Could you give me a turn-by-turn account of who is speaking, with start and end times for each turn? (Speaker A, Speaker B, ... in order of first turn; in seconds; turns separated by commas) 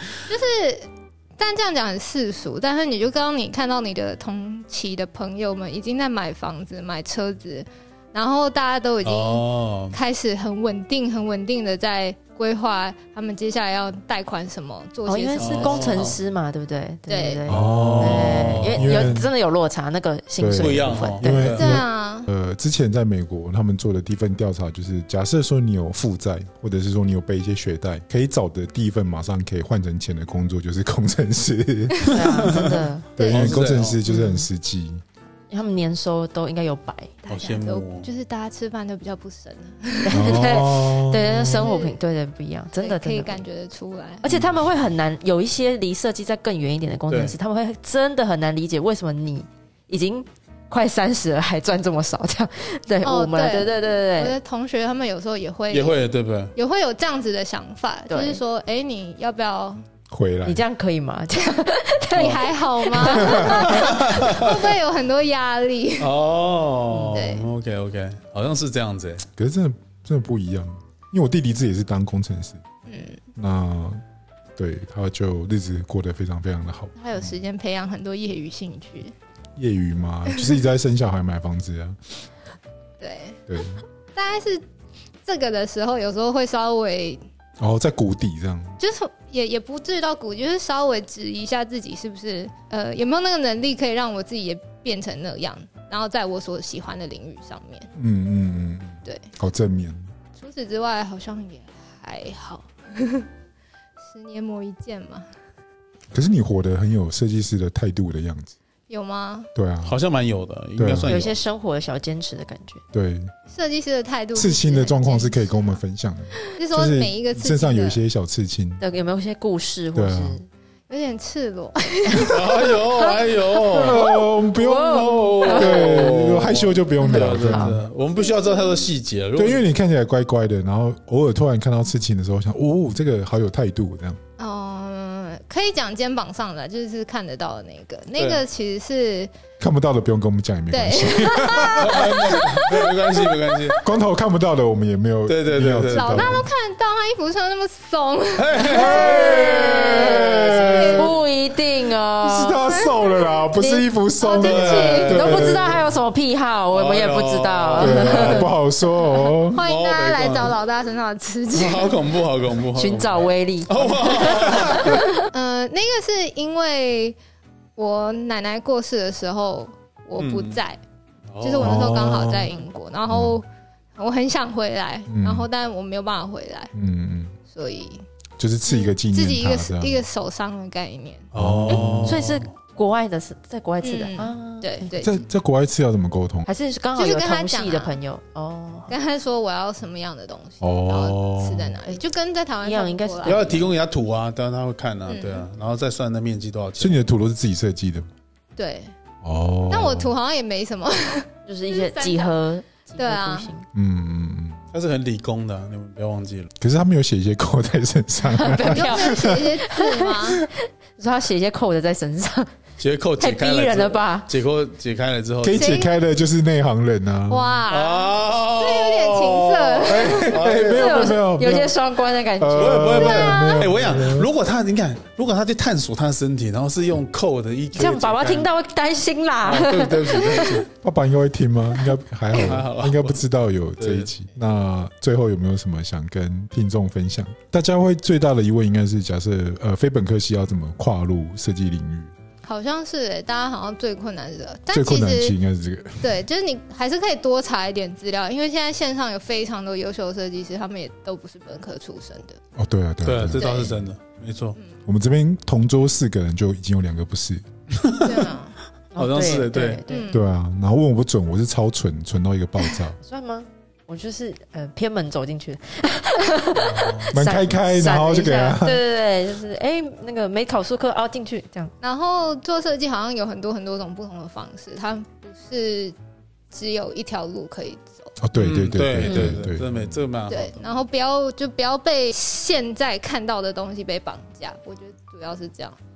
Speaker A: 0.3-16.1, Speaker B: 9.0-10.0, Speaker C: 15.1-21.6, Speaker B: 15.4-16.2, Speaker A: 17.1-17.4, Speaker B: 17.5-19.2, Speaker D: 17.5-19.3, Speaker D: 20.4-35.0, Speaker B: 20.6-21.7, Speaker A: 21.6-22.3, Speaker C: 32.0-33.1, Speaker B: 32.4-34.0, Speaker A: 33.2-33.6, Speaker C: 34.0-34.5, Speaker C: 35.5-37.2, Speaker A: 37.2-40.5, Speaker B: 37.3-38.1, Speaker C: 40.0-43.4, Speaker D: 40.1-41.7, Speaker A: 41.6-42.0, Speaker A: 42.8-44.2, Speaker C: 44.2-54.3, Speaker B: 44.3-44.6, Speaker B: 47.1-47.3, Speaker A: 53.0-56.0, Speaker B: 55.7-56.5, Speaker A: 56.5-59.8, Speaker C: 58.1-58.4, Speaker D: 60.1-60.6, Speaker C: 60.4-64.2, Speaker A: 62.1-66.1, Speaker D: 63.2-63.8, Speaker B: 63.6-64.6, Speaker B: 66.0-69.3, Speaker A: 66.9-67.5, Speaker D: 69.3-72.6, Speaker A: 72.8-73.2, Speaker D: 73.3-74.0, Speaker D: 74.6-77.4, Speaker A: 77.0-79.1, Speaker D: 79.5-82.2, Speaker A: 83.0-83.4, Speaker D: 83.5-83.8, Speaker A: 84.1-84.6, Speaker A: 85.2-87.2, Speaker D: 87.6-88.8, Speaker A: 88.8-97.9, Speaker D: 97.9-100.1, Speaker A: 100.3-103.3, Speaker A: 104.0-105.3, Speaker D: 106.1-108.5, Speaker A: 108.9-109.5, Speaker D: 109.5-110.0, Speaker B: 109.8-111.4, Speaker D: 110.8-111.1, Speaker C: 111.0-112.8, Speaker D: 112.9-113.3, Speaker A: 113.5-115.5, Speaker D: 114.3-118.8, Speaker A: 116.5-118.0, Speaker C: 118.8-120.5, Speaker D: 119.9-120.4, Speaker A: 120.9-122.9, Speaker B: 122.3-124.2, Speaker D: 123.7-127.8, Speaker C: 123.8-126.2, Speaker B: 124.8-129.6, Speaker C: 127.0-127.8, Speaker A: 128.4-128.7, Speaker D: 129.3-134.2, Speaker A: 134.4-139.3, Speaker B: 138.2-138.4, Speaker D: 139.6-142.6, Speaker A: 140.7-142.8, Speaker B: 141.6-143.8, Speaker D: 143.8-146.4, Speaker B: 145.3-146.4, Speaker A: 145.9-151.1, Speaker B: 148.3-150.6, Speaker C: 148.6-152.6, Speaker D: 149.1-151.1, Speaker D: 152.2-155.8, Speaker A: 152.7-153.1, Speaker C: 153.6-153.8, Speaker A: 154.2-155.4, Speaker B: 154.4-155.6, Speaker C: 155.0-158.5, Speaker B: 156.7-158.5, Speaker D: 157.8-159.6, Speaker A: 159.5-162.0, Speaker B: 159.6-160.6, Speaker B: 161.5-165.0, Speaker C: 162.7-165.1, Speaker A: 164.7-167.2, Speaker A: 167.8-170.8, Speaker B: 170.2-170.6, Speaker B: 171.3-171.9, Speaker A: 171.4-173.4, Speaker D: 171.6-172.5, Speaker D: 173.1-173.3, Speaker A: 174.0-176.7, Speaker D: 175.1-175.5, Speaker D: 176.7-177.3, Speaker A: 177.5-178.0, Speaker D: 178.4-180.0, Speaker A: 178.7-181.3, Speaker B: 181.3-182.5, Speaker D: 181.3-182.2, Speaker C: 181.7-184.9, Speaker A: 183.8-185.2, Speaker D: 185.0-186.5, Speaker C: 186.4-188.9, Speaker A: 186.9-188.0, Speaker A: 188.9-193.7, Speaker D: 190.6-191.8, Speaker C: 192.6-193.7, Speaker B: 193.2-197.0, Speaker A: 195.1-195.5, Speaker D: 196.8-198.1, Speaker A: 198.6-198.9, Speaker D: 199.2-200.1, Speaker A: 199.7-202.3, Speaker C: 201.4-203.7, Speaker A: 202.9-203.5, Speaker D: 203.7-204.6, Speaker B: 204.7-206.5, Speaker D: 206.6-209.2, Speaker C: 208.3-212.5, Speaker A: 208.6-210.5, Speaker B: 212.8-215.7, Speaker C: 213.2-214.3, Speaker D: 215.4-217.6, Speaker A: 215.5-215.9, Speaker A: 217.3-220.4, Speaker B: 217.7-221.1, Speaker D: 219.8-221.8, Speaker C: 220.6-223.1, Speaker D: 222.3-224.3, Speaker B: 222.5-228.5, Speaker A: 223.0-223.7, Speaker C: 227.7-230.6, Speaker B: 229.4-230.7, Speaker D: 230.8-242.1, Speaker B: 232.3-233.2, Speaker B: 233.8-234.1, Speaker A: 242.4-245.4, Speaker D: 244.7-246.1, Speaker A: 246.0-252.4, Speaker D: 252.5-253.8, Speaker B: 253.0-254.6, Speaker A: 253.3-253.7, Speaker D: 254.8-257.4, Speaker B: 257.7-258.3, Speaker A: 258.0-258.6, Speaker B: 258.9-259.8, Speaker C: 258.9-260.1, Speaker A: 259.9-260.2, Speaker D: 260.1-263.0, Speaker C: 263.0-271.7, Speaker B: 266.6-267.1, Speaker D: 267.1-268.8, Speaker A: 271.8-275.9, Speaker A: 276.5-278.1, Speaker D: 278.2-280.0, Speaker B: 278.3-280.8, Speaker C: 279.0-279.4, Speaker A: 280.3-285.8